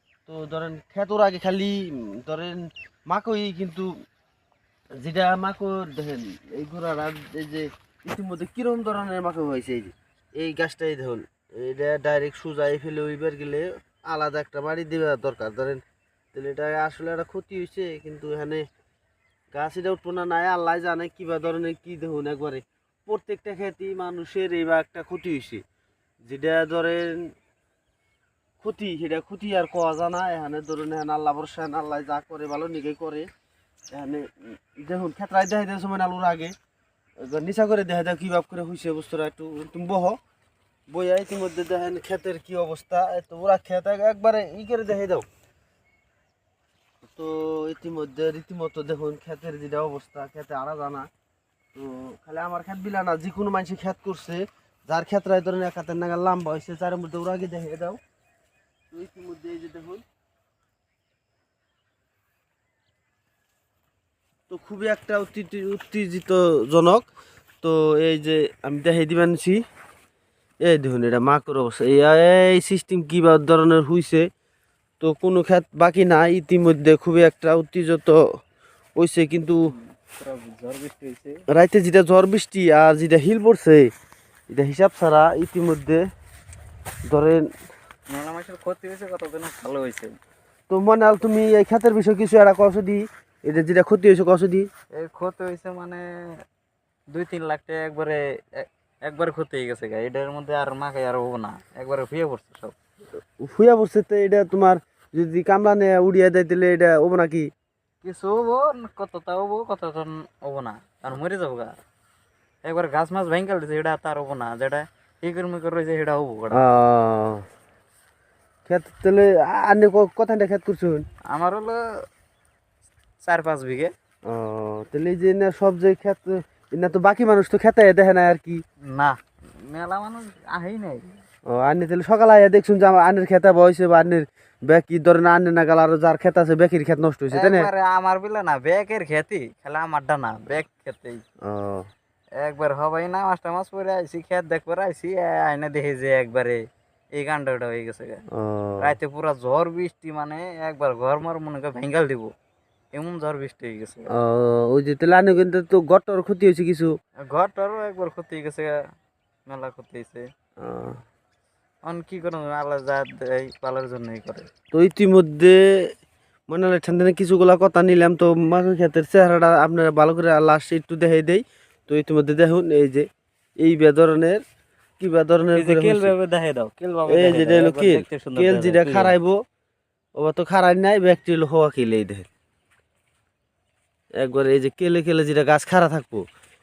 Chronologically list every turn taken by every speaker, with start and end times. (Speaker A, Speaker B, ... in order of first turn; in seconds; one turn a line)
Speaker A: 0.3-3.9
Speaker A: 5.0-15.8
Speaker A: 16.3-18.6
Speaker A: 19.5-25.6
Speaker A: 26.2-27.2
Speaker A: 28.6-33.3
Speaker A: 33.9-36.5
Speaker A: 37.2-40.2
Speaker A: 40.9-45.3
Speaker A: 47.1-51.1
Speaker A: 51.8-58.0
Speaker A: 58.9-60.0
Speaker A: 64.5-67.1
Speaker A: 67.6-69.6
Speaker A: 70.6-74.3
Speaker A: 75.0-78.2
Speaker A: 79.0-79.7
Speaker B: 79.6-81.4
Speaker A: 81.5-83.9
Speaker A: 84.5-86.0
Speaker A: 87.1-87.5
Speaker B: 88.1-90.2
Speaker A: 90.7-94.7
Speaker B: 94.9-96.0
Speaker B: 97.1-102.8
Speaker A: 103.4-107.5
Speaker B: 108.0-111.7
Speaker B: 112.6-116.6
Speaker A: 116.5-117.4
Speaker A: 118.7-121.1
Speaker B: 121.3-121.8
Speaker B: 123.2-123.9
Speaker A: 124.3-128.6
Speaker B: 128.9-131.1
Speaker A: 131.5-137.7
Speaker B: 137.3-141.2
Speaker A: 141.4-141.9
Speaker B: 142.4-146.6
Speaker B: 147.1-148.2
Speaker A: 148.3-148.9
Speaker B: 148.8-152.3
Speaker B: 152.9-154.1
Speaker A: 154.1-156.9
Speaker B: 157.3-158.8
Speaker B: 159.5-160.2
Speaker A: 160.6-161.0
Speaker B: 161.8-164.5
Speaker A: 164.7-165.9
Speaker A: 166.5-173.1
Speaker A: 173.6-174.4
Speaker A: 175.0-176.1
Speaker B: 175.6-179.2
Speaker A: 177.1-179.4
Speaker A: 180.2-182.3
Speaker A: 184.2-186.2